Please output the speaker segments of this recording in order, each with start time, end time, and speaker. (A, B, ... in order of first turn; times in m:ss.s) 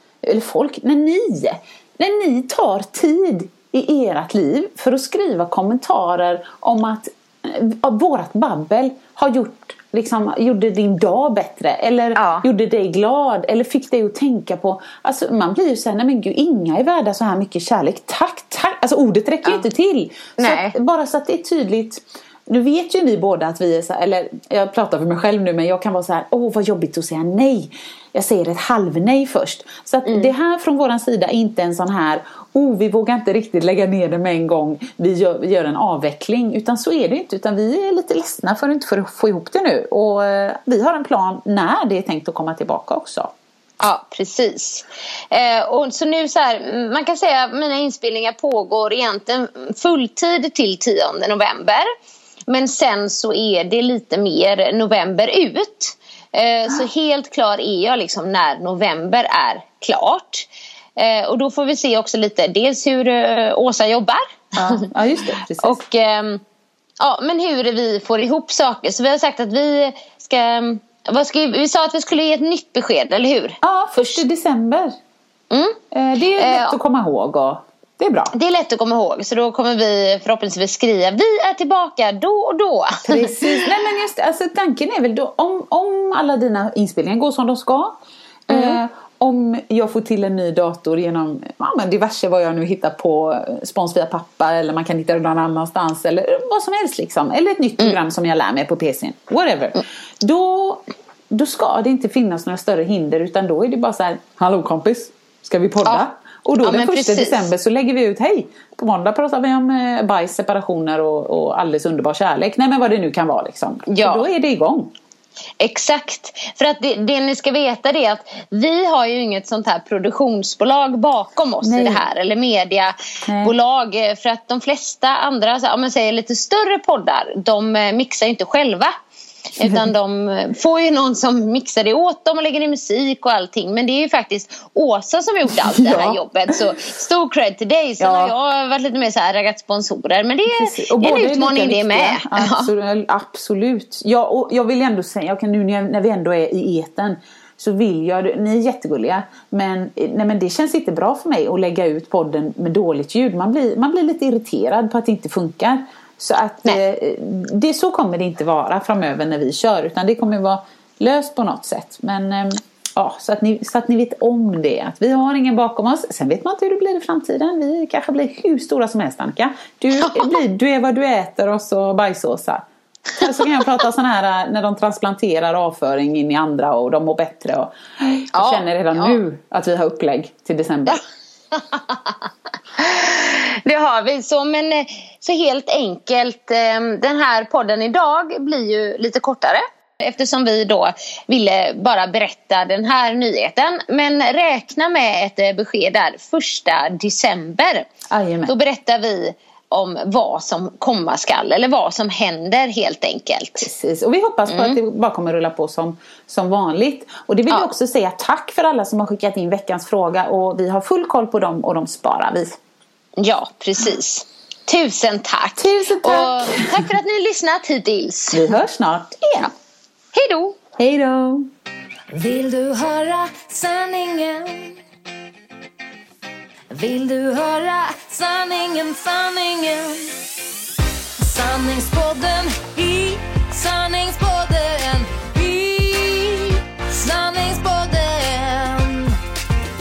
0:00.2-0:43.3 A
0:12.1-0:12.4 B
0:20.4-0:20.8 B
0:30.0-0:30.3 B
0:43.8-0:51.9 B
0:52.5-1:04.9 B
1:04.6-1:05.8 A
1:05.6-1:06.4 B
1:07.0-1:14.2 B
1:13.6-1:14.9 A
1:15.5-1:15.8 B
1:15.9-1:18.3 A
1:16.3-1:16.8 B
1:18.3-1:23.6 B
1:23.0-1:27.9 A
1:28.5-1:28.8 B
1:28.5-1:54.9 A
1:46.6-1:47.5 B
1:53.9-1:54.3 B
1:55.6-2:08.9 B
2:01.6-2:02.0 A
2:03.2-2:03.5 A
2:09.5-2:22.7 B
2:09.6-2:09.9 A
2:15.5-2:16.5 A
2:18.0-2:18.3 A
2:20.4-2:52.6 A
2:49.9-2:50.3 B
2:53.2-2:53.7 B
2:53.2-3:01.0 A
2:58.3-2:59.2 B
3:01.5-3:02.2 B
3:02.8-3:17.9 B
3:18.1-3:18.5 A
3:18.5-3:23.7 B
3:23.6-3:32.6 A
3:24.5-3:24.8 B
3:33.2-3:38.4 B
3:35.6-3:36.9 A
3:38.3-3:39.5 A
3:40.1-3:40.6 B
3:40.8-3:41.5 A
3:42.1-3:44.7 C
3:46.7-3:50.1 C
3:51.2-3:59.2 C